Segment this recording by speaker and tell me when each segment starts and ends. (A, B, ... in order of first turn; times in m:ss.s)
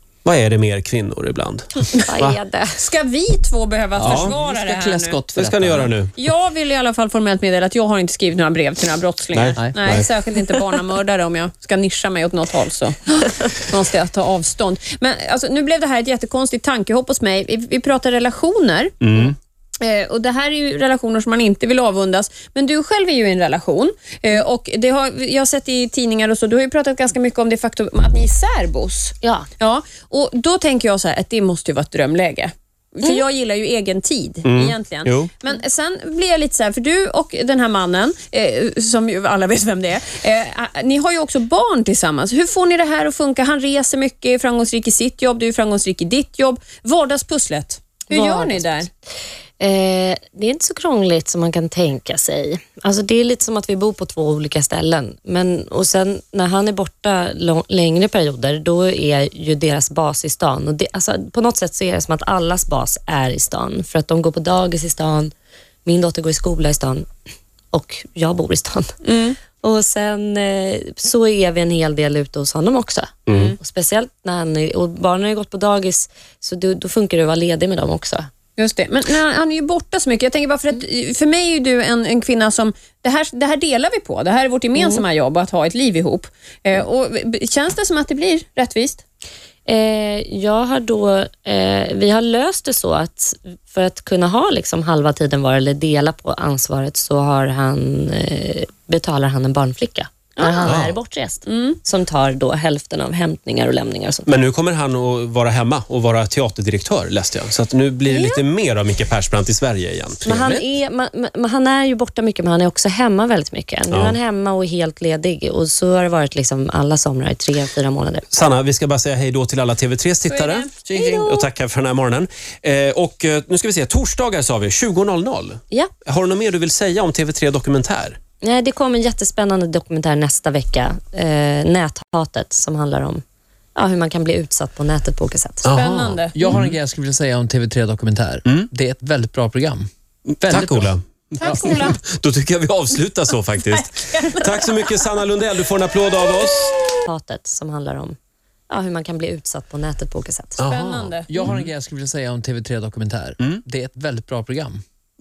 0:00.2-0:02.4 A
0:02.0-0:02.8 B
0:02.8-0:05.2 C
0:04.0-0:06.0 D
0:04.0-0:04.3 A
0:05.4-0:06.1 A
0:06.1-0:48.9 C
0:09.3-0:10.1 A
0:19.0-0:19.3 A
0:29.2-0:29.5 B
0:34.4-0:35.3 A
0:48.1-0:48.9 B
0:49.6-1:05.3 B
1:05.8-1:07.0 B
1:07.7-1:08.9 B
1:09.0-1:09.4 C
1:09.6-1:18.3 B
1:13.3-1:13.5 A
1:18.6-1:29.0 C
1:24.8-1:25.0 B
1:29.7-1:44.3 B
1:40.4-1:40.7 C
1:40.6-1:41.0 A
1:41.4-1:41.8 C
1:44.2-1:50.6 A
1:48.1-1:48.4 B
1:50.2-1:58.2 B
1:53.9-1:54.2 A
1:58.3-2:08.2 A
2:00.3-2:00.7 C
2:00.9-2:01.5 B
2:08.4-2:13.2 B
2:13.8-2:15.6 B
2:15.6-2:16.8 A
2:15.7-2:16.6 C
2:16.3-2:19.9 D
2:20.4-2:21.7 D
2:20.4-2:26.8 A
2:21.4-2:21.9 C
2:23.7-2:25.0 C
2:27.0-2:28.2 B
2:28.7-2:30.6 B
2:30.6-2:31.7 A
2:30.7-2:31.5 C
2:31.3-2:34.8 D